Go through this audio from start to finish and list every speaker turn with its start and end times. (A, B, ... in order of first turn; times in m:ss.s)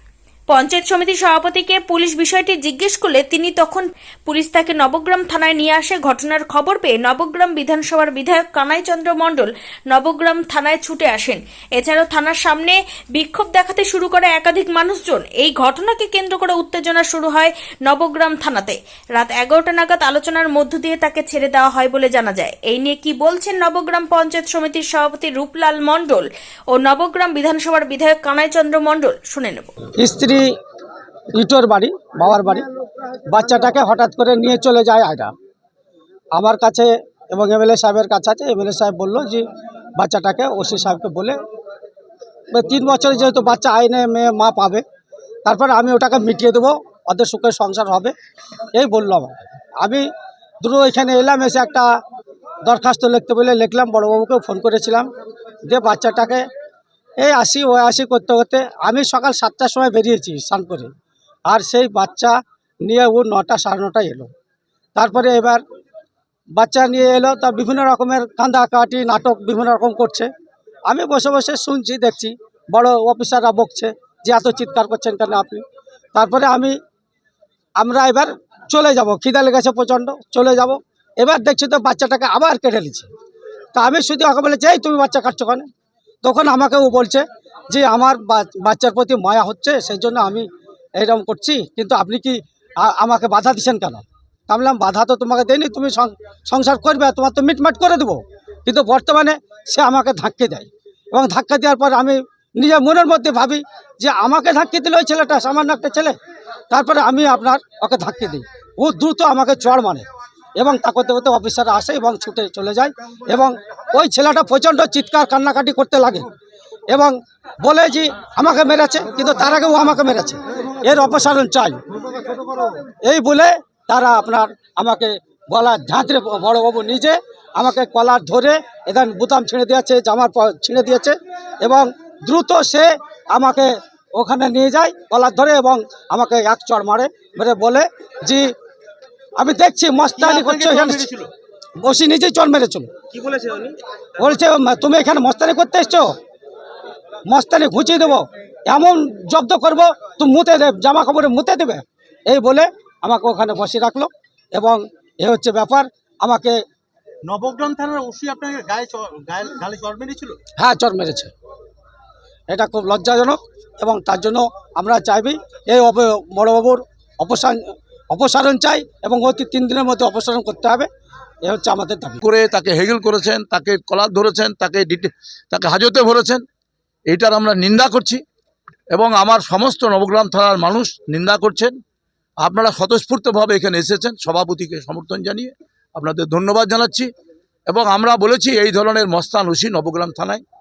0:00.5-0:29.7 A
0:30.0-0:30.5 B
0:31.4-0:32.6 B
0:33.3-0:35.3 B
0:36.3-0:39.4 B
0:40.0-0:41.4 B
0:42.5-0:44.8 B
0:45.4-0:48.1 B
0:48.7-0:50.1 B
0:50.6-0:51.9 B
0:52.7-0:55.1 B
0:55.7-0:56.4 B
0:57.2-1:00.9 B
1:01.5-1:04.3 B
1:05.0-1:05.6 B
1:06.6-1:10.3 B
1:10.9-1:15.6 B
1:16.1-1:16.7 B
1:17.8-1:23.1 B
1:23.7-1:25.7 B
1:26.2-1:30.5 B
1:31.0-1:46.2 B
1:46.7-1:50.0 B
1:50.6-1:56.2 B
1:56.9-2:01.8 B
2:02.7-2:18.5 B
2:19.4-2:21.1 B
2:20.2-2:21.3 C
2:21.8-2:22.9 B
2:23.1-2:23.8 C
2:24.2-2:26.1 B
2:27.3-2:36.6 B
2:37.2-2:40.4 C
2:40.6-2:41.3 B
2:42.5-2:50.9 B
2:51.4-2:52.2 B
2:52.2-2:56.4 D
2:57.1-2:58.2 D
2:58.9-3:01.7 D
3:02.4-3:07.1 D
3:07.7-3:10.4 D